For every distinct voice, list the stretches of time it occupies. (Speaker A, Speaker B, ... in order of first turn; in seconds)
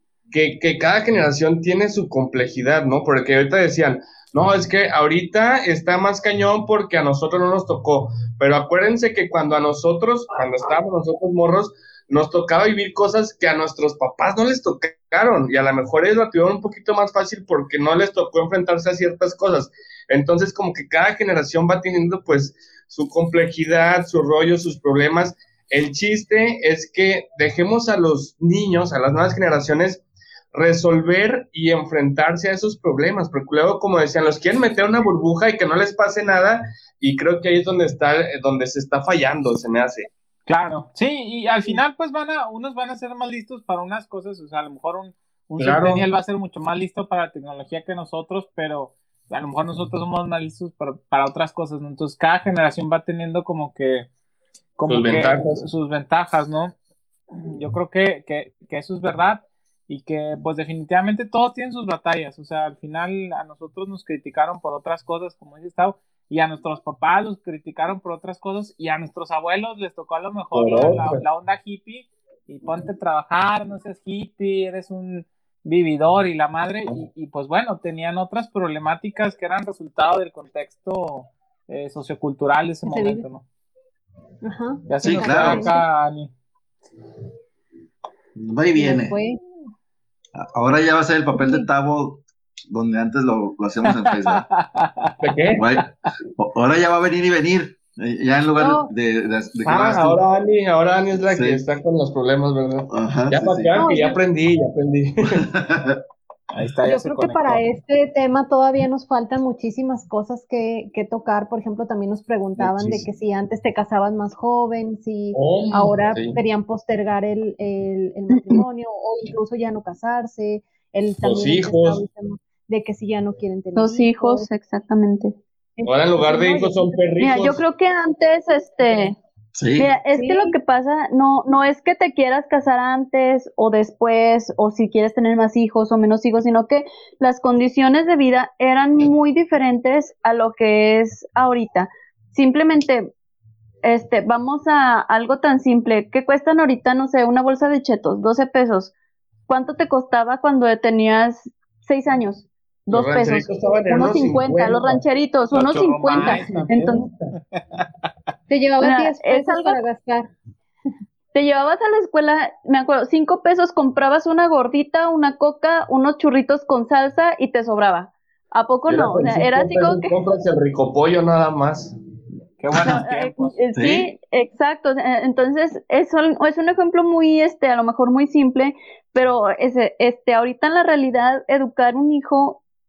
Speaker A: 0.3-40.1, 45.6-46.0, 54.9-55.6, 70.5-71.2, 95.2-95.6, 99.7-105.5, 112.6-113.0, 115.3-116.4, 121.2-122.0, 125.8-127.6, 152.9-155.0, 156.2-157.3, 168.9-171.9
Speaker B: 40.5-54.1, 54.8-56.8, 57.4-83.4, 84.9-86.3, 93.9-95.2, 106.5-107.6, 155.5-157.8, 172.6-173.5
Speaker C: 82.9-83.3, 84.4-85.8, 88.8-89.4, 91.3-91.7, 98.6-98.9, 103.8-104.2, 106.9-124.5, 126.3-126.8, 130.1-130.5, 158.5-160.3
Speaker D: 85.0-85.7, 88.4-89.2, 90.3-94.5, 95.6-100.2, 101.3-101.6, 102.9-103.8, 105.3-106.0, 129.6-129.9, 173.8-174.1
Speaker E: 123.8-125.4, 126.2-126.7, 127.2-129.2, 129.8-143.1, 143.8-148.9, 149.5-157.1, 158.8-159.8, 161.3-170.1, 172.8-182.6